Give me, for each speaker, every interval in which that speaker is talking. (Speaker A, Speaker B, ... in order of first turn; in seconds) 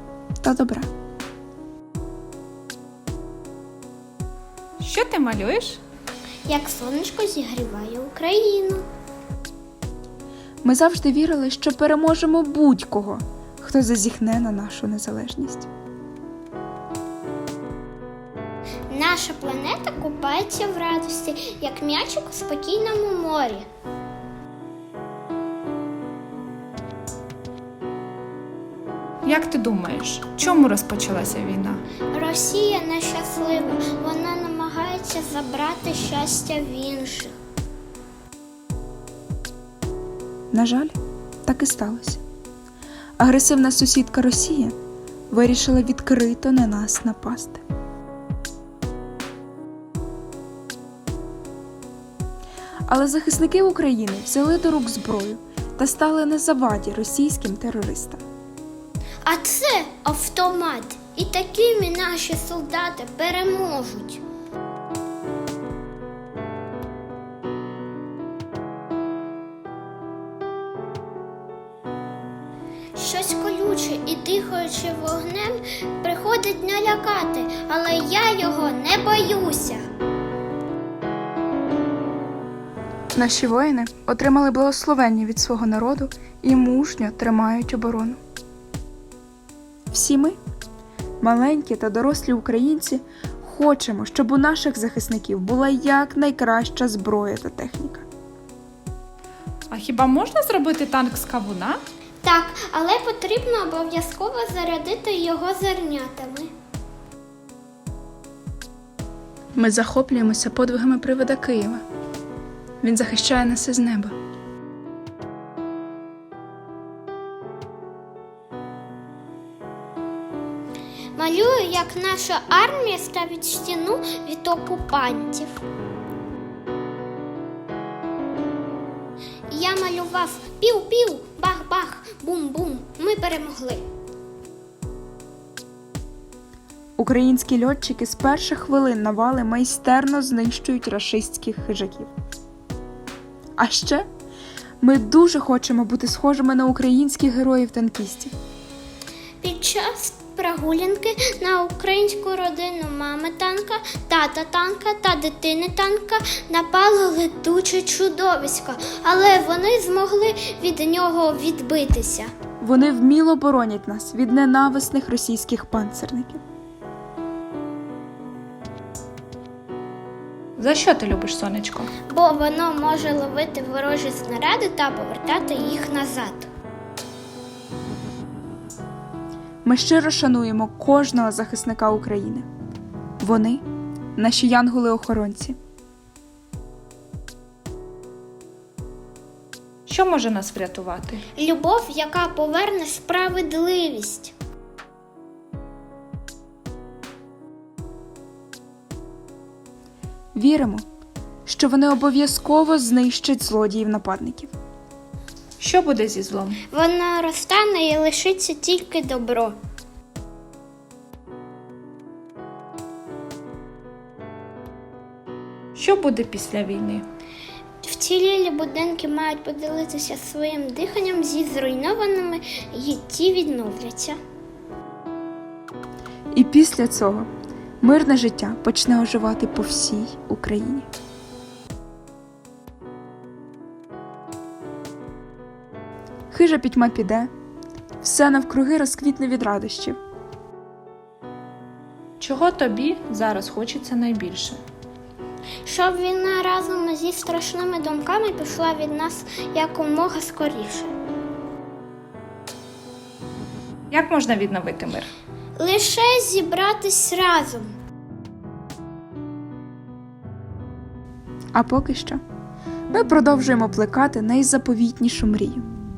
Speaker A: 0.4-0.9, 10.6-15.7, 40.5-42.2, 43.2-44.8, 45.3-47.6, 52.9-58.2, 83.1-88.2, 89.9-90.4, 91.2-98.0, 109.5-111.8, 112.8-114.1, 137.0-142.1, 143.6-144.1, 144.8-148.3, 162.6-166.4, 179.6-182.5, 183.2-183.6, 184.2-185.6, 200.3-200.8, 201.4-204.5, 226.3-227.3, 227.8-230.9, 236.3-237.3, 238.0-240.0, 261.5-262.2, 262.9-265.7
Speaker B: 4.8-5.8, 29.2-31.8, 99.7-101.8, 170.6-171.9, 189.9-191.2, 205.6-206.6, 215.8-217.0, 242.2-244.6, 253.9-255.1
Speaker C: 6.5-8.8, 18.9-23.7, 32.1-37.3, 59.2-64.2, 72.9-79.8, 102.2-106.5, 121.1-125.6, 129.5-133.8, 149.4-162.3, 172.1-176.5, 191.3-194.3, 206.7-209.6, 217.8-224.2, 245.6-250.9, 255.6-257.7